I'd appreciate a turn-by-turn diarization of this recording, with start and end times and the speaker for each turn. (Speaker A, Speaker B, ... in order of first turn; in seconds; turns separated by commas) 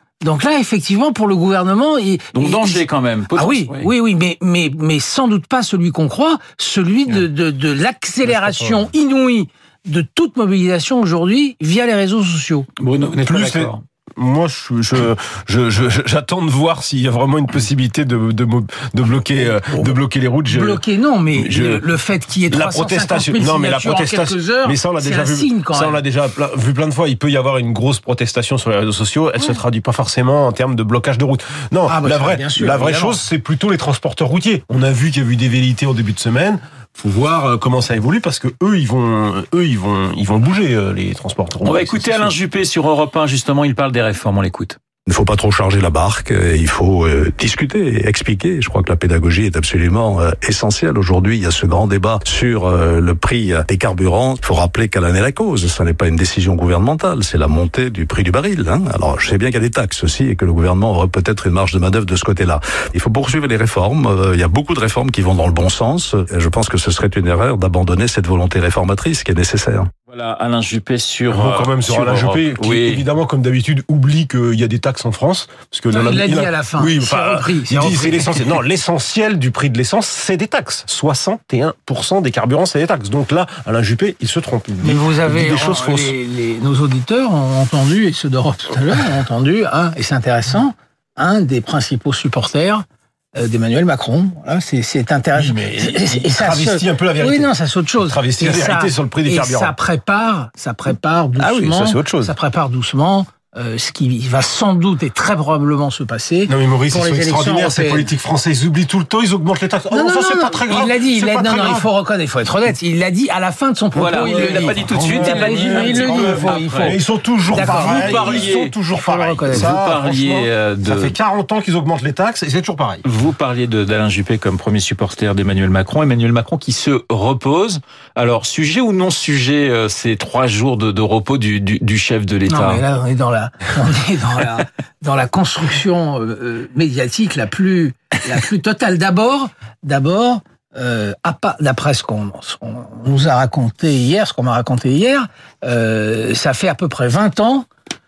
Speaker A: 0.2-12.7, Speaker B: 2.3-3.9, Speaker C: 8.2-8.9, Speaker B: 12.8-13.8, Speaker C: 13.2-20.8, Speaker A: 19.3-19.9, Speaker A: 20.5-26.0, Speaker C: 21.3-21.8, Speaker C: 22.5-42.3, Speaker A: 31.9-33.2, Speaker B: 41.6-44.8, Speaker D: 45.1-69.9, Speaker B: 70.1-73.0, Speaker C: 71.3-86.2, Speaker A: 75.9-78.5, Speaker A: 84.8-108.1, Speaker C: 95.3-97.5, Speaker C: 98.0-99.7, Speaker C: 101.4-102.3, Speaker C: 106.5-111.9, Speaker A: 109.9-119.8, Speaker B: 113.9-117.0, Speaker C: 114.2-123.0, Speaker B: 117.5-118.7, Speaker B: 119.5-121.1, Speaker B: 123.0-132.8, Speaker A: 132.5-147.7